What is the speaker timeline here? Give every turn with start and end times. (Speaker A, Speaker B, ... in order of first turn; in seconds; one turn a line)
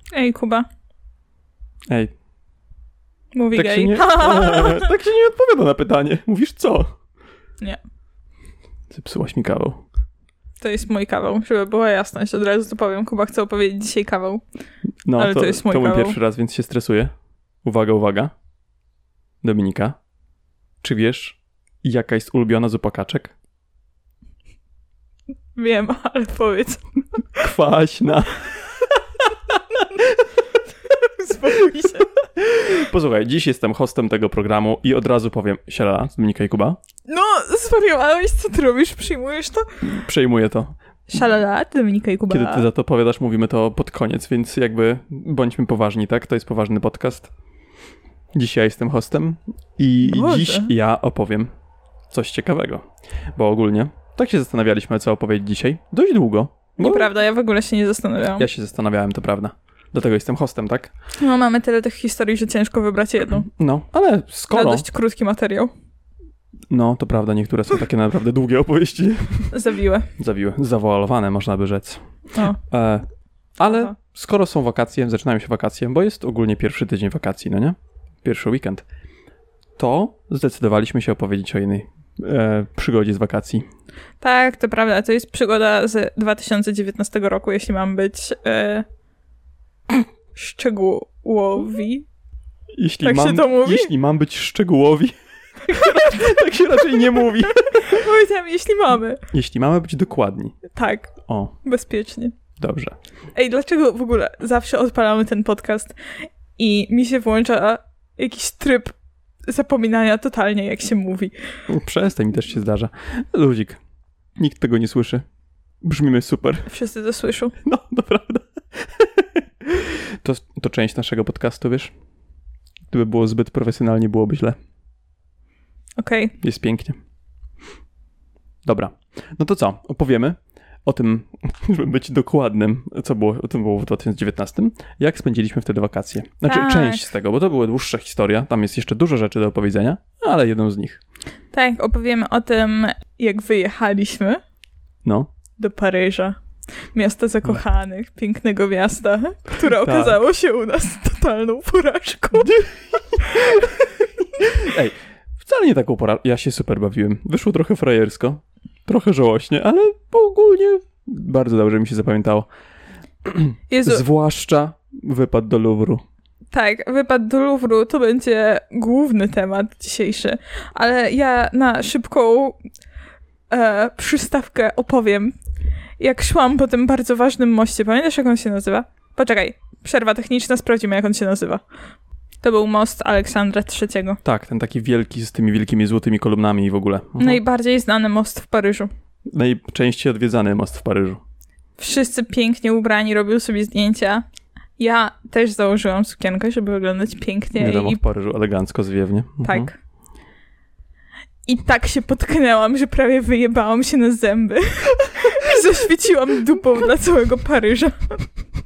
Speaker A: 0.1-0.7
Speaker A: 3.3-4.9
Speaker B: 3.5-6.9
Speaker B: 8.9-9.8
Speaker A: 10.6-14.4
Speaker B: 15.1-17.1
Speaker A: 15.2-16.2
Speaker B: 17.6-18.3
Speaker B: 19.4-20.0
Speaker B: 20.8-23.4
Speaker A: 25.6-26.8
Speaker B: 27.4-28.5
Speaker A: 30.9-32.1
Speaker B: 32.4-36.8
Speaker A: 37.1-39.7
Speaker B: 39.8-40.8
Speaker A: 41.1-42.7
Speaker B: 42.3-47.3
Speaker B: 48.4-51.5
Speaker A: 50.0-50.7
Speaker B: 52.1-57.1
Speaker A: 56.8-58.5
Speaker B: 58.4-60.9
Speaker A: 61.2-63.5
Speaker B: 63.6-64.9
Speaker A: 64.5-65.7
Speaker B: 66.7-69.6
Speaker A: 69.5-70.1
Speaker B: 70.2-72.0
Speaker B: 72.7-73.0
Speaker B: 73.6-78.9
Speaker A: 73.6-73.9
Speaker B: 79.8-83.7
Speaker A: 84.2-88.9
Speaker A: 89.9-92.1
Speaker B: 92.8-95.1
Speaker A: 93.0-93.9
Speaker B: 95.7-97.9
Speaker A: 95.7-96.1
Speaker A: 97.7-99.2
Speaker B: 99.3-100.6
Speaker A: 100.7-101.1
Speaker B: 101.3-101.5
Speaker A: 101.7-102.3
Speaker B: 102.6-103.0
Speaker A: 103.3-106.0
Speaker A: 106.6-108.9
Speaker A: 109.5-111.3
Speaker B: 111.7-113.8
Speaker B: 114.4-115.2
Speaker B: 115.8-116.7
Speaker A: 116.7-117.5
Speaker B: 117.6-118.5
Speaker B: 119.0-121.9
Speaker B: 122.9-124.6
Speaker A: 126.0-126.4
Speaker B: 126.4-127.0
Speaker B: 128.7-141.0
Speaker A: 136.4-137.1
Speaker A: 141.5-144.4
Speaker A: 145.6-146.4
Speaker A: 146.9-152.6
Speaker B: 149.7-150.2
Speaker B: 152.4-153.7
Speaker A: 153.2-153.7
Speaker B: 154.4-162.5
Speaker B: 163.2-166.0
Speaker A: 163.7-164.0
Speaker A: 166.5-172.6
Speaker A: 173.5-175.4
Speaker A: 176.0-181.6
Speaker A: 182.4-184.2
Speaker B: 184.2-187.4
Speaker A: 187.2-188.9
Speaker B: 189.3-191.2
Speaker A: 191.8-194.2
Speaker A: 194.8-198.0
Speaker B: 197.6-199.7
Speaker A: 199.4-199.7
Speaker A: 201.5-208.2